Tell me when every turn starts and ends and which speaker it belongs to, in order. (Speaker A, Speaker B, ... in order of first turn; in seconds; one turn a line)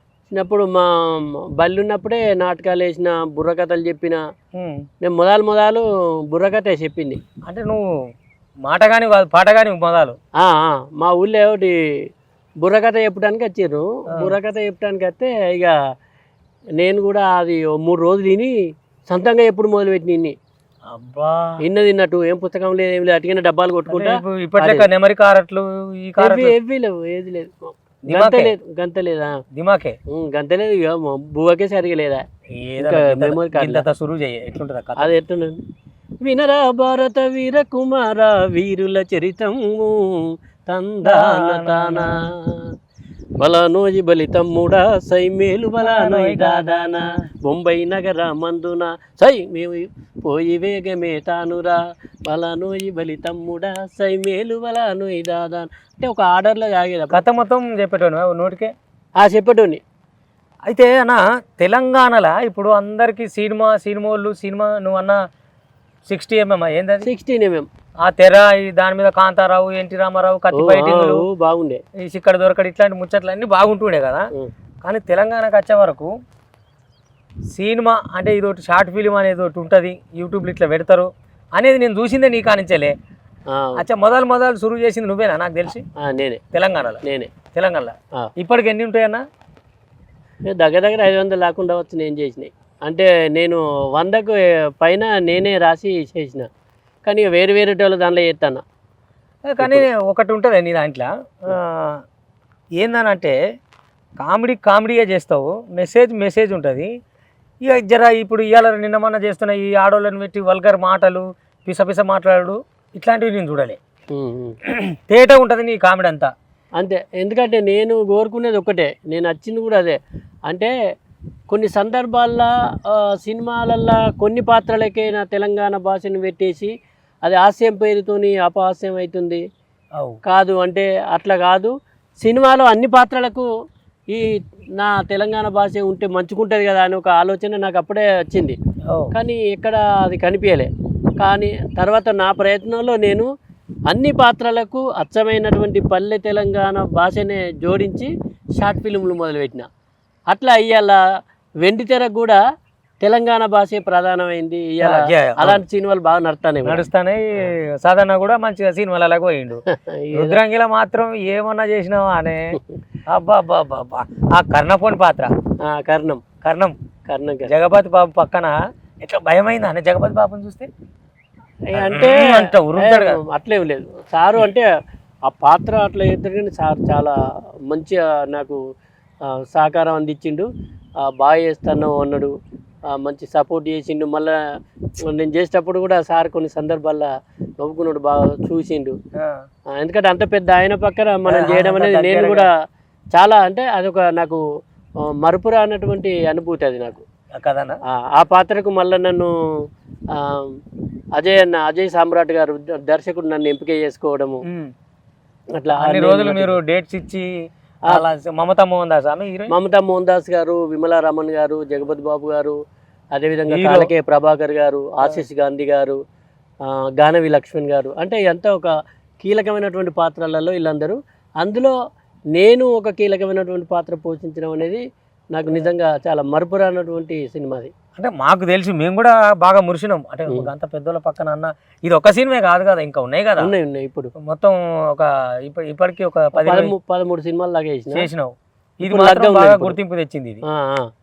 Speaker A: 0.3-4.2
Speaker B: 4.5-4.8
Speaker A: 5.0-7.2
Speaker B: 7.5-7.9
Speaker B: 8.6-10.2
Speaker A: 10.4-11.8
Speaker A: 12.6-15.8
Speaker A: 16.8-18.5
Speaker A: 19.1-20.3
Speaker B: 20.9-21.6
Speaker A: 21.6-24.9
Speaker B: 23.9-26.5
Speaker A: 26.2-29.4
Speaker B: 28.1-28.5
Speaker B: 29.5-30.0
Speaker A: 30.1-32.2
Speaker B: 32.5-35.1
Speaker A: 32.8-33.9
Speaker A: 35.0-35.6
Speaker A: 36.2-42.7
Speaker B: 41.0-42.2
Speaker A: 43.4-57.2
Speaker B: 45.8-47.2
Speaker B: 57.1-58.7
Speaker A: 59.2-59.8
Speaker B: 60.6-65.2
Speaker B: 66.1-67.1
Speaker A: 67.0-67.7
Speaker B: 68.0-71.2
Speaker A: 70.5-71.8
Speaker B: 72.0-74.3
Speaker B: 74.8-76.1
Speaker B: 77.5-82.9
Speaker A: 83.5-83.8
Speaker B: 83.8-85.8
Speaker A: 86.0-86.4
Speaker B: 86.5-87.0
Speaker A: 87.0-87.3
Speaker B: 87.5-89.2
Speaker A: 90.5-96.5
Speaker A: 97.0-98.6
Speaker B: 99.5-102.0
Speaker B: 102.8-103.4
Speaker B: 104.2-106.9
Speaker B: 107.6-113.8
Speaker A: 114.1-114.6
Speaker B: 114.7-116.3
Speaker A: 116.8-120.0
Speaker A: 121.5-126.7
Speaker A: 127.2-129.4
Speaker A: 130.2-133.5
Speaker A: 134.1-138.6
Speaker A: 139.1-140.7
Speaker A: 141.2-143.3
Speaker A: 143.9-149.7
Speaker A: 150.3-151.0
Speaker A: 151.6-152.4
Speaker A: 153.0-156.8
Speaker B: 154.8-155.6
Speaker B: 156.6-159.6
Speaker A: 159.7-160.4
Speaker B: 160.1-165.3
Speaker A: 165.6-166.2
Speaker B: 166.4-166.7
Speaker A: 167.1-167.5
Speaker B: 167.5-170.7
Speaker A: 171.7-174.7
Speaker B: 171.7-173.2
Speaker A: 175.3-177.2
Speaker A: 177.7-178.6
Speaker A: 179.4-180.5
Speaker A: 181.1-182.3
Speaker A: 182.9-184.3
Speaker A: 185.1-187.1
Speaker A: 187.6-188.9
Speaker B: 189.1-189.4
Speaker A: 189.7-192.5
Speaker B: 191.3-192.5
Speaker A: 193.1-194.4
Speaker A: 195.1-197.0
Speaker B: 197.3-197.8
Speaker A: 197.9-199.3
Speaker A: 200.1-200.6
Speaker A: 201.2-204.4
Speaker A: 205.6-206.6
Speaker B: 205.8-207.3
Speaker B: 207.9-209.5
Speaker A: 209.5-212.6
Speaker A: 213.1-216.0
Speaker B: 213.5-213.9
Speaker A: 216.7-221.7
Speaker A: 222.3-224.8
Speaker A: 225.3-227.7
Speaker B: 228.0-233.5
Speaker A: 233.4-234.1
Speaker B: 234.2-236.7
Speaker A: 236.3-238.1
Speaker B: 237.9-240.4
Speaker A: 238.8-239.8
Speaker A: 240.5-240.9